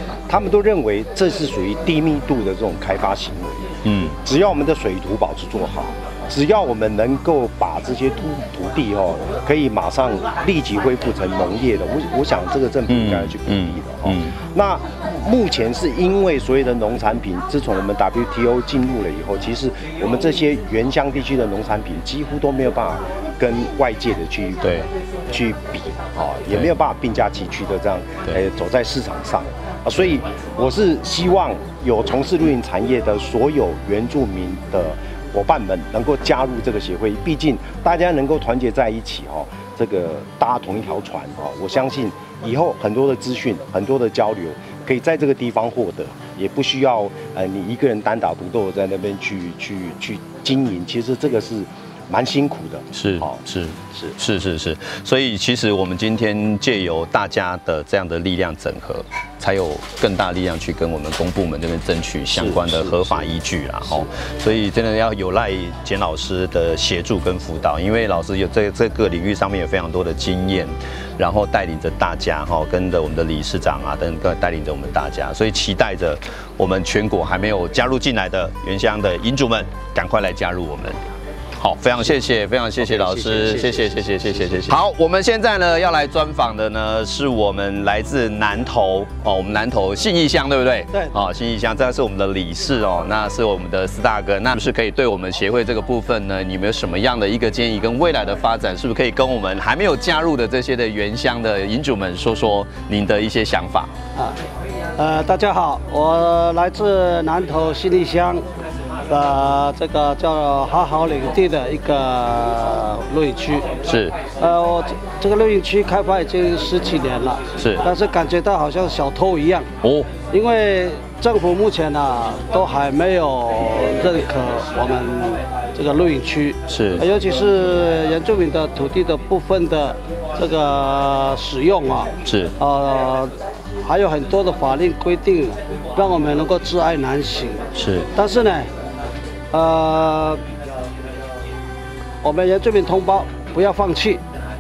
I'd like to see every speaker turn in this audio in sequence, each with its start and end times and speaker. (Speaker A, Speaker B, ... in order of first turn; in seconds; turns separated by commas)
Speaker A: 0.3-3.7, Speaker B: 3.9-4.2, Speaker A: 4.2-53.4, Speaker B: 12.9-14.3, Speaker B: 24.6-24.9, Speaker B: 52.9-81.0, Speaker A: 62.3-63.3, Speaker B: 81.6-103.9, Speaker C: 83.0-83.8, Speaker C: 105.0-108.4, Speaker C: 109.1-113.7, Speaker B: 113.8-114.2, Speaker C: 114.4-119.7, Speaker B: 117.6-117.8, Speaker B: 119.8-120.1, Speaker C: 120.3-133.3, Speaker B: 126.7-127.0, Speaker B: 132.2-132.5, Speaker C: 133.9-137.6, Speaker B: 137.8-138.1, Speaker C: 138.2-138.7, Speaker C: 139.5-140.4, Speaker C: 142.2-144.2